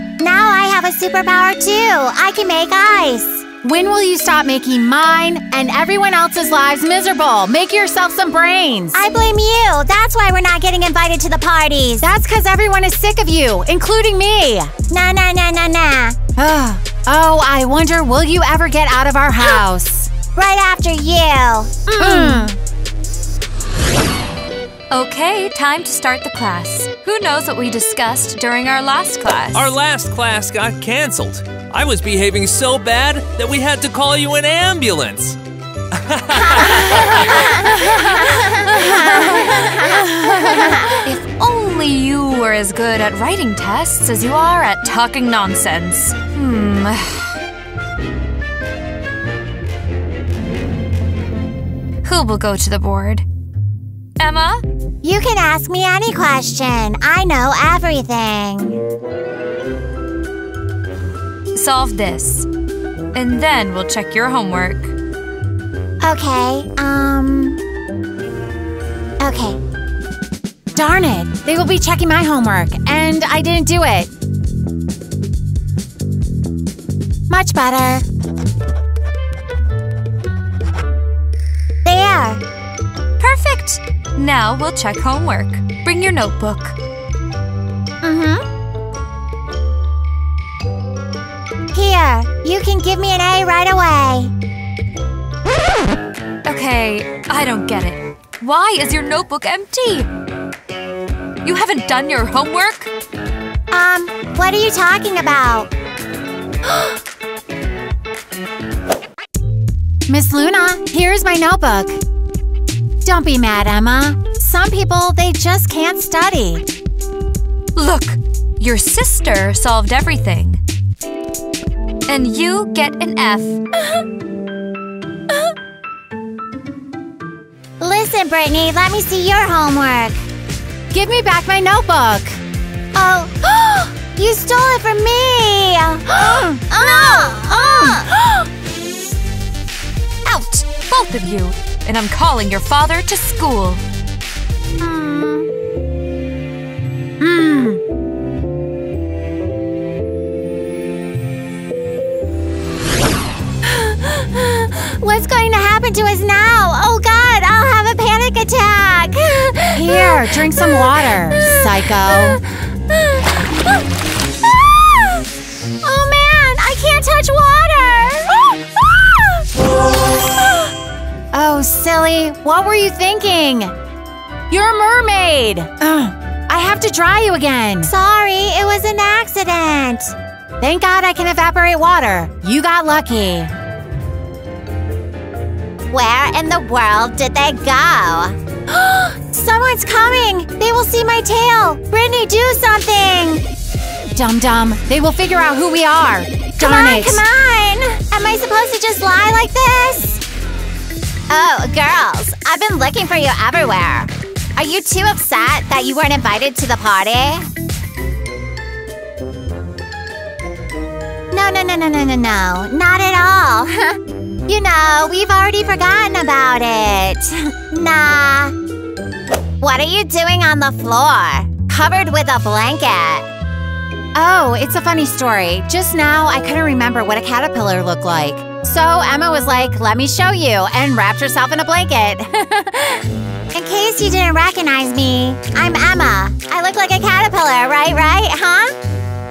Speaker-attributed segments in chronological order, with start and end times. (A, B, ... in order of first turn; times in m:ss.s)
0:00.2-0:03.5 A
0:03.6-0:09.0 B
0:08.9-0:12.0 A
0:12.0-0:14.8 B
0:14.8-0:16.2 A
0:16.4-0:20.2 B
0:20.2-0:22.4 A
0:21.9-0:22.5 B
0:24.9-0:29.7 C
0:29.5-0:35.4 D
0:35.9-0:37.3 D
0:37.6-0:47.3 C
0:52.0-0:53.2 C
0:54.2-0:54.6 C
0:55.0-0:58.8 A
1:01.5-1:02.5 C
1:03.1-1:04.9 C
1:06.0-1:07.6 A
1:09.2-1:09.6 A
1:10.7-1:14.1 B
1:17.3-1:18.0 B
1:21.8-1:22.4 A
1:23.2-1:26.8 C
1:28.0-1:28.4 A
1:28.0-1:28.4 B
1:31.7-1:34.3 A
1:36.4-1:40.1 C
1:41.4-1:42.9 C
1:43.7-1:45.7 A
1:50.1-1:52.0 B
1:53.0-1:56.6 B
1:57.8-2:00.6 C
2:02.1-2:03.6 C
2:07.8-2:10.2 A
2:10.9-2:12.4 B
2:12.9-2:18.1 A
2:16.3-2:16.8 B
2:17.3-2:17.9 B
2:20.2-2:23.8 C
2:24.8-2:25.5 B
2:27.2-2:27.8 B
2:34.8-2:42.4 A
2:39.7-2:42.4 B
2:45.8-2:48.3 A
2:51.3-2:53.7 B
2:54.5-2:57.9 B
2:57.8-3:00.1 A
3:00.6-3:03.5 B
3:05.9-3:13.4 A
3:14.1-3:17.2 B
3:16.5-3:20.2 A
3:21.3-3:27.5 A
3:31.3-3:38.5 A
3:39.6-3:43.3 A
3:44.1-3:53.0 B
3:53.5-3:58.7 A